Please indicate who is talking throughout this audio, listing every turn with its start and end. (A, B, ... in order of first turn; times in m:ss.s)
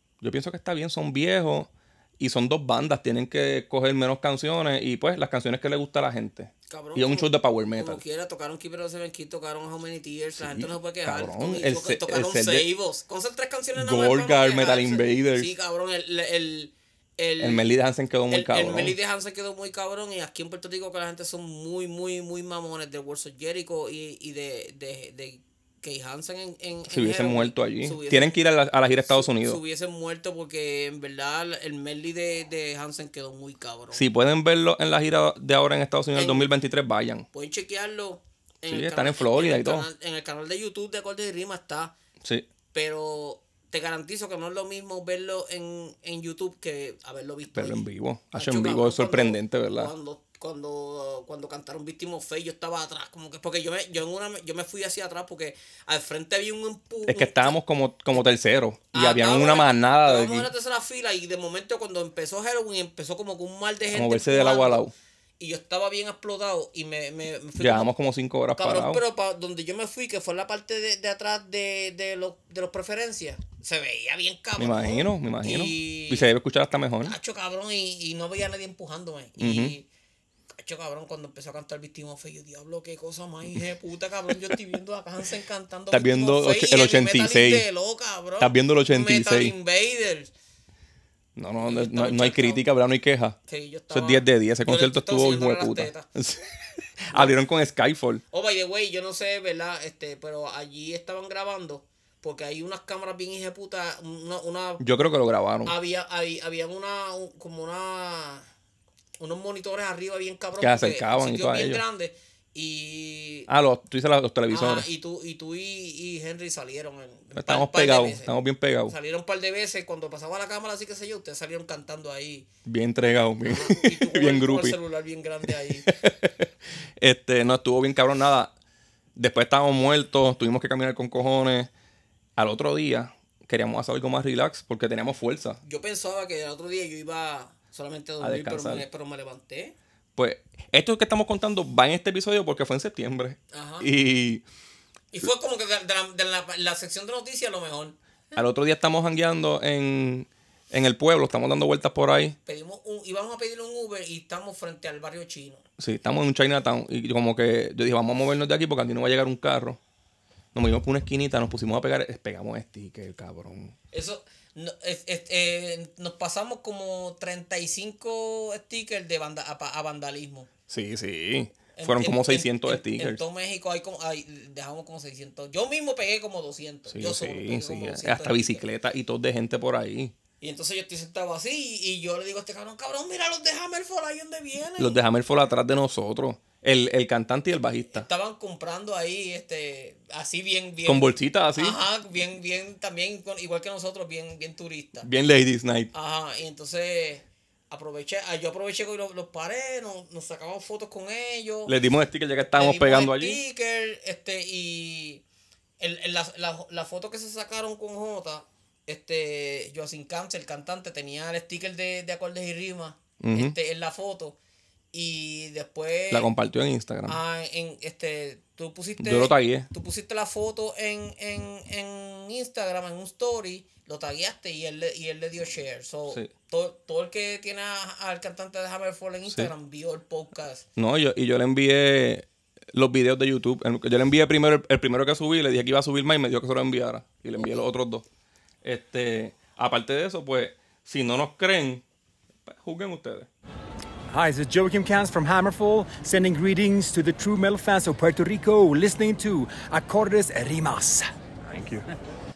0:00.2-0:08.0 A
0:06.7-0:17.7 B
0:10.4-0:12.7 A
0:13.7-0:15.5 A
0:17.4-0:19.0 A
0:18.3-0:28.4 B
0:26.9-0:29.6 A
0:29.1-0:34.0 B
0:33.9-0:37.3 A
0:36.1-0:36.5 B
0:37.3-0:42.0 B
0:38.7-0:39.9 A
0:42.7-0:57.6 B
0:47.5-0:49.9 A
0:57.1-1:00.5 A
0:58.9-1:04.8 B
1:03.9-1:04.9 A
1:05.4-1:07.9 B
1:07.6-1:09.0 A
1:08.6-1:16.3 B
1:14.6-1:17.2 A
1:17.0-1:19.9 B
1:19.4-1:19.8 A
1:20.6-1:30.3 B
1:25.9-1:27.7 A
1:28.4-1:29.6 A
1:31.4-1:33.4 A
1:31.6-1:32.7 B
1:33.5-1:36.1 B
1:33.9-1:38.2 A
1:38.3-1:44.8 B
1:44.8-1:45.8 A
1:45.6-1:48.5 B
1:49.2-1:53.5 B
1:50.6-1:51.8 A
1:53.5-1:54.9 A
1:54.5-1:58.3 B
1:57.4-1:58.9 A
1:58.9-2:02.5 B
2:02.6-2:04.8 A
2:03.4-2:05.9 B
2:05.8-2:06.5 A
2:07.0-2:08.5 A
2:09.2-2:11.7 A
2:12.4-2:15.6 A
2:15.6-2:19.8 B
2:18.2-2:18.8 A
2:20.2-2:24.4 A
2:23.5-2:23.9 B
2:25.1-2:28.0 B
2:28.4-2:32.4 A
2:32.5-2:35.6 B
2:35.8-2:39.8 A
2:40.5-2:43.8 A
2:43.9-2:50.5 B
2:50.7-2:53.2 A
2:51.8-2:58.6 B
2:56.9-3:00.2 A
3:00.4-3:05.0 B
3:04.8-3:08.1 A
3:07.9-3:15.1 B
3:10.9-3:11.8 A
3:15.0-3:15.9 A
3:15.9-3:21.7 B
3:21.7-3:23.4 A
3:22.5-3:25.2 B
3:25.8-3:34.4 B
3:33.2-3:33.6 A
3:34.9-3:36.3 B
3:36.1-3:37.2 A
3:37.1-3:50.7 B
3:39.0-3:39.7 A
3:50.8-3:58.0 A
3:57.4-3:57.7 B
3:58.6-4:01.8 A
4:02.5-4:03.3 A
4:04.1-4:11.1 C
4:11.5-4:11.9 A